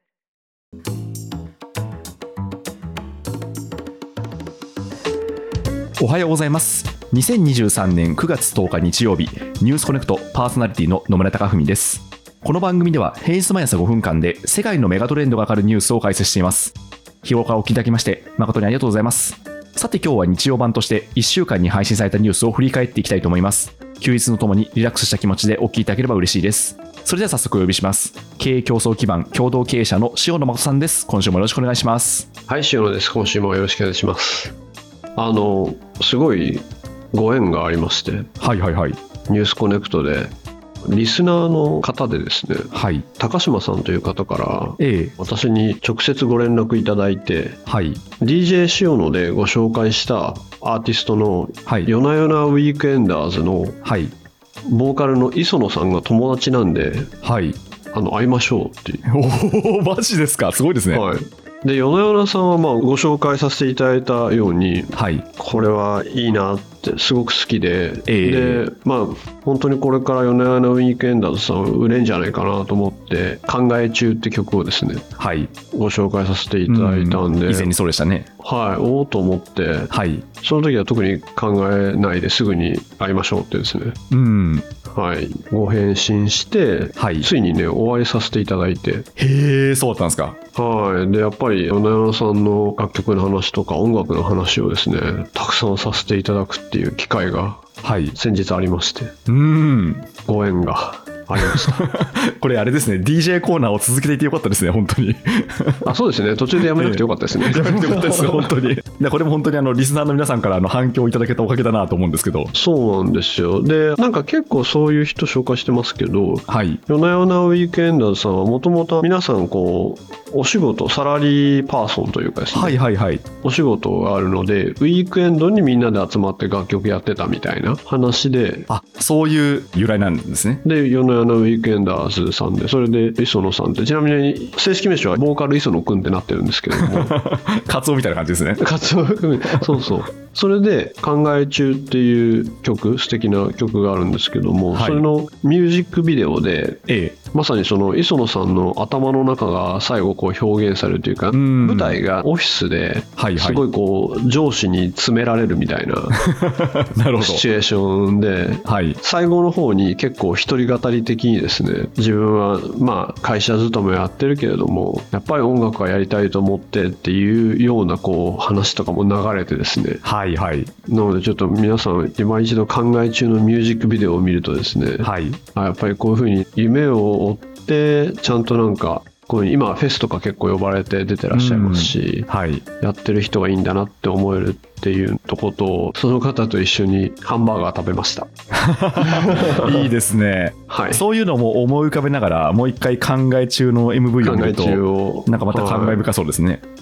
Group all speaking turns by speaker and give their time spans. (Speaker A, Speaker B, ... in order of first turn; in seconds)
Speaker A: 6.0-32.3, 38.4-39.0, 42.7-43.0, 44.8-45.1, 47.7-48.0, 53.8-54.1, 57.2-57.6, 59.0-61.0, 64.9-65.2, 68.1-68.6, 75.2-75.5, 76.7-78.3, 79.9-80.2, 84.1-84.7, 87.0-87.3, 89.2-90.4, 97.8-98.2, 99.3-100.1, 101.3-105.9, 106.6-112.5, 116.5-116.8, 122.5-123.2, 128.7-130.6, 136.8-138.6, 144.7-145.0, 146.9-147.2, 151.3-152.0, 153.2-153.6, 156.2-157.4, 158.7-159.0, 170.0-170.7, 175.0-175.4, 181.3-182.6, 188.5-196.6
Speaker B: 32.5-34.5, 35.1-38.3, 39.3-40.3, 40.8-47.6, 48.2-53.8, 54.6-57.1, 57.9-59.0, 60.9-75.1, 75.7-77.7, 78.4-84.0, 84.9-89.1, 90.5-99.1, 100.2-101.8, 105.8-108.5, 112.5-122.8, 123.4-128.7, 130.6-137.2, 138.6-156.2, 157.2-170.0, 170.8-182.3, 182.8-188.3, 189.0-189.8, 190.7-191.0, 194.2-196.0